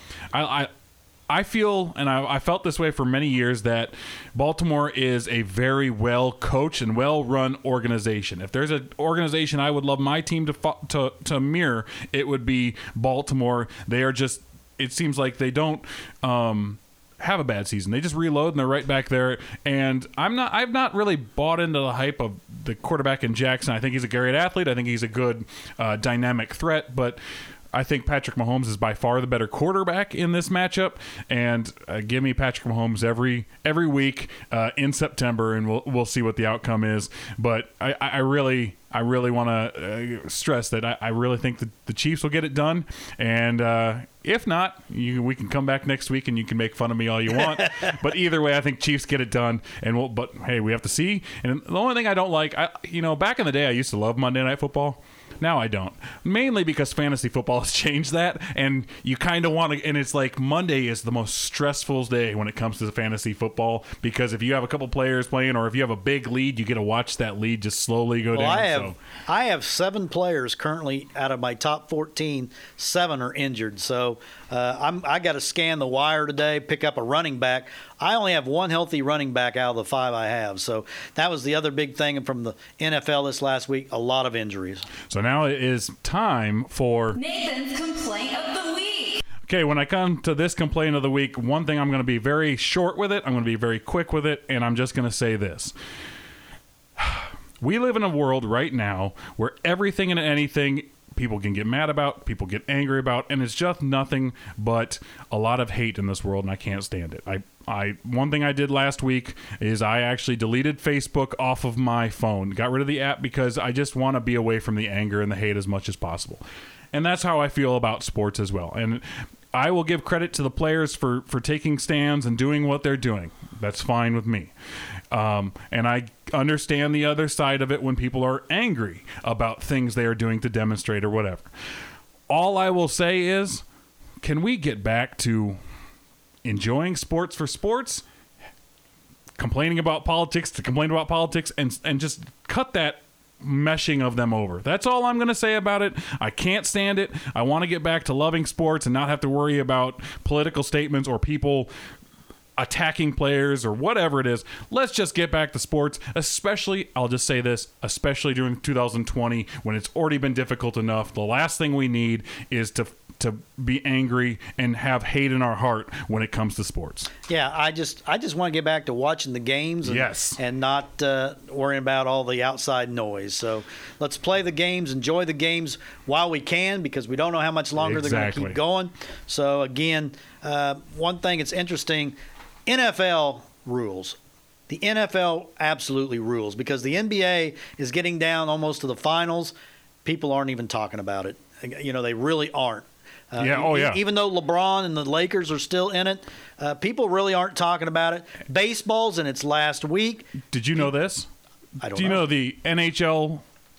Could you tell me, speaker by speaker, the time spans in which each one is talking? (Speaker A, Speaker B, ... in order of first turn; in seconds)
Speaker A: 0.3-0.7, 1.3-27.2, 27.7-69.0, 85.1-87.2, 89.5-95.7, 97.0-116.4, 116.9-124.5, 125.1-131.5, 132.3-133.6, 134.2-135.6, 136.4-138.0, 139.4-151.7, 152.6-167.1, 169.8-170.4, 177.8-178.6, 193.4-194.0, 200.5-201.3, 201.9-203.4
Speaker B: 68.3-84.9, 167.3-182.2, 182.7-184.2, 184.7-189.5, 190.1-200.9, 201.8-202.3
Speaker C: 87.1-89.2